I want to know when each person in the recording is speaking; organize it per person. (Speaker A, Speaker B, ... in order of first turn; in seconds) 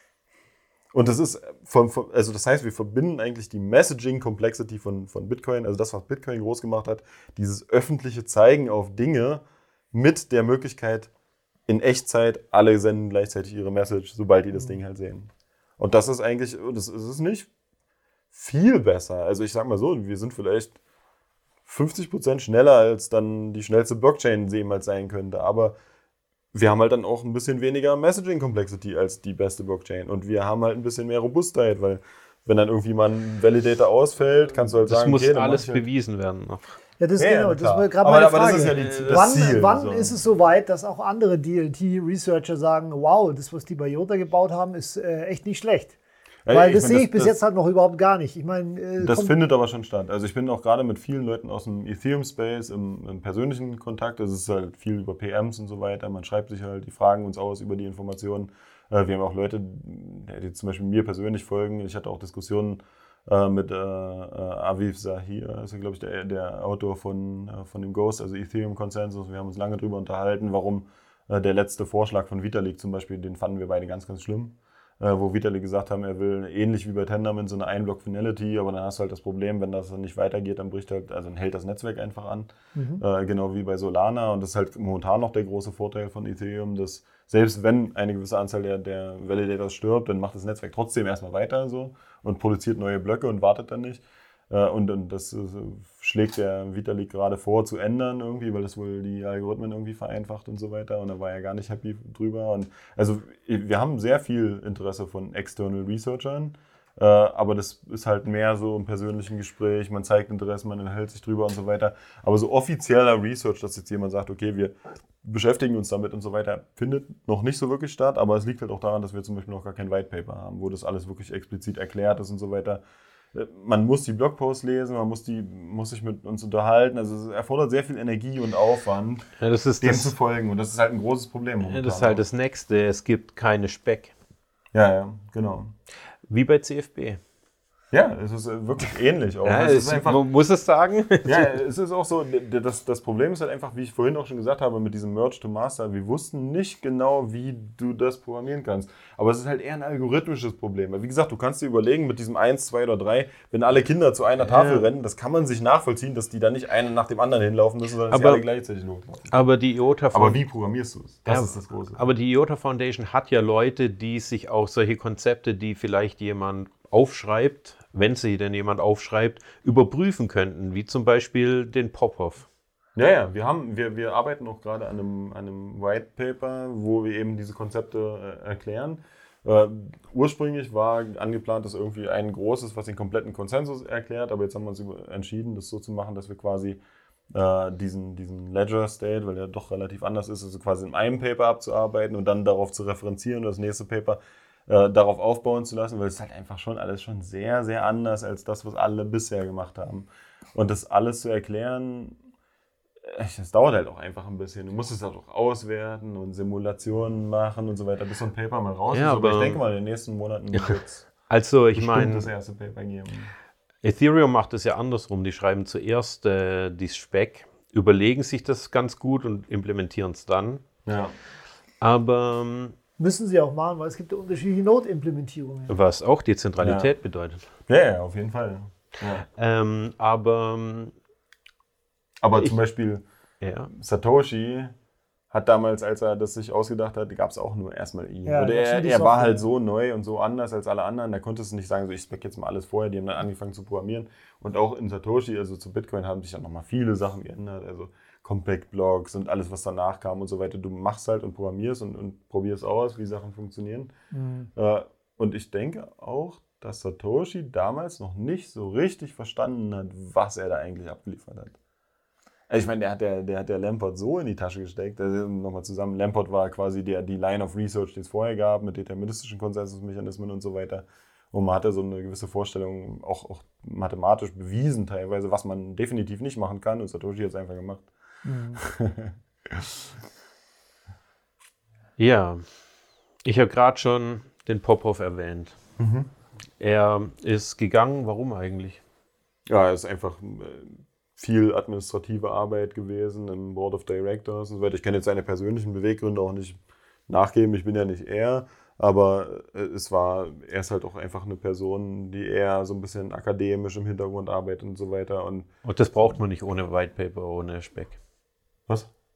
Speaker A: 0.9-11.1, 11.7-17.5, 18.3-20.8, 21.6-25.7, 26.5-35.8, 37.2-40.1, 46.5-47.4, 49.0-122.8, 123.3-129.3, 129.8-132.2, 134.7-135.7, 137.9-140.2, 141.2-159.4, 160.1-162.0, 172.9-186.8, 187.3-202.2, 203.0-211.1, 211.7-213.3, 220.8-221.2, 226.6-226.9, 227.7-229.2, 232.2-233.0, 233.7-234.7, 235.3-253.9, 254.6-261.6, 262.5-277.9, 278.6-279.8, 285.8-286.1, 289.5-305.5
Speaker B: 34.7-36.8, 38.7-39.6, 129.4-130.1, 131.7-134.1, 136.3-137.2, 139.4-141.6, 154.4-154.9, 158.1-158.4, 159.3-160.4, 161.2-172.5, 208.9-209.6, 211.3-212.3, 213.8-220.6, 221.8-222.7, 225.7-227.4, 229.4-230.9, 233.4-233.7, 282.0-282.4, 283.2-285.6, 286.6-288.8, 305.6-308.0
Speaker C: 37.0-46.0, 46.5-49.3, 82.7-83.0, 223.0-225.7, 238.2-239.4, 254.1-254.5, 278.2-278.6